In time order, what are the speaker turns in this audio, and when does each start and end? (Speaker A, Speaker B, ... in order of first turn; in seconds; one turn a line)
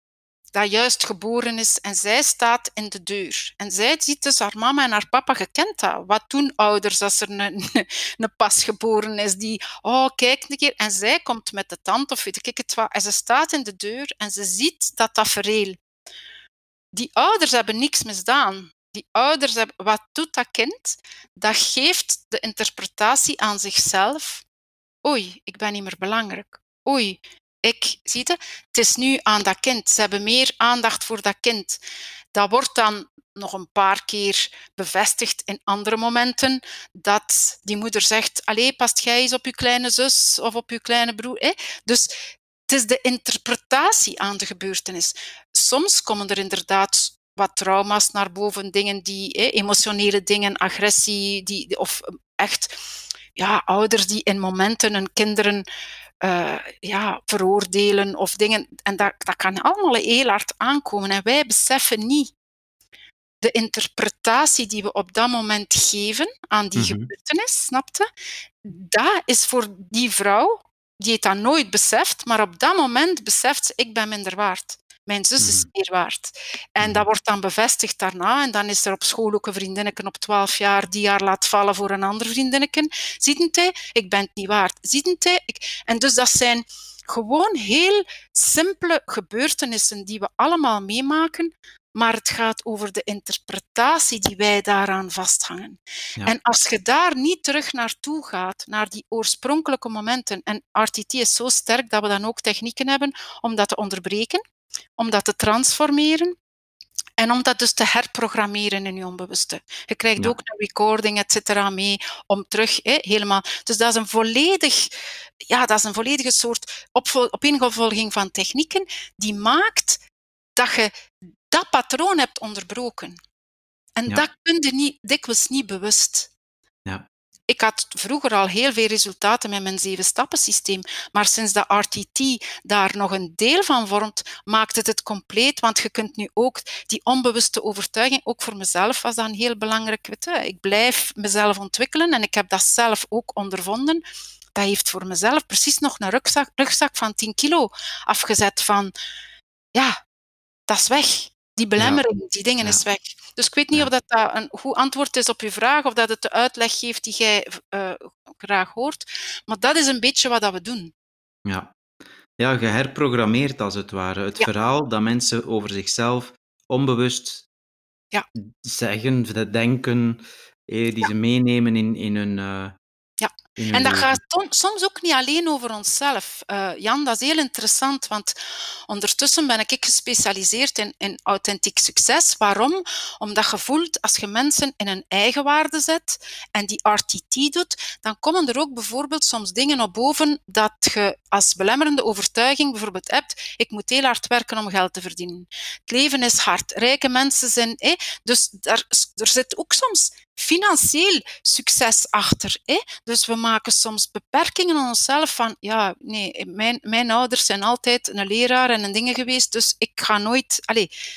Speaker A: 0.5-15.8
Speaker A: 16.9-24.4
Speaker A: 25.0-31.8
Speaker A: 32.3-42.1
Speaker A: 42.7-52.7
Speaker A: 53.4-55.6
Speaker A: 56.2-62.3
Speaker A: 63.4-68.0
Speaker B: 66.8-67.1
Speaker A: 68.6-104.4
Speaker B: 75.4-75.7
Speaker B: 76.8-77.0
Speaker A: 105.0-106.3
Speaker A: 107.2-114.9
Speaker A: 115.5-120.0
Speaker A: 120.6-120.9
Speaker A: 121.5-123.2
Speaker A: 124.0-126.3
Speaker A: 127.5-144.0
Speaker A: 144.5-148.9
Speaker A: 150.7-160.9
Speaker B: 161.4-161.7
Speaker B: 162.4-167.4
Speaker B: 168.3-172.8
Speaker A: 173.2-178.3
Speaker B: 173.6-174.2
Speaker A: 178.9-210.9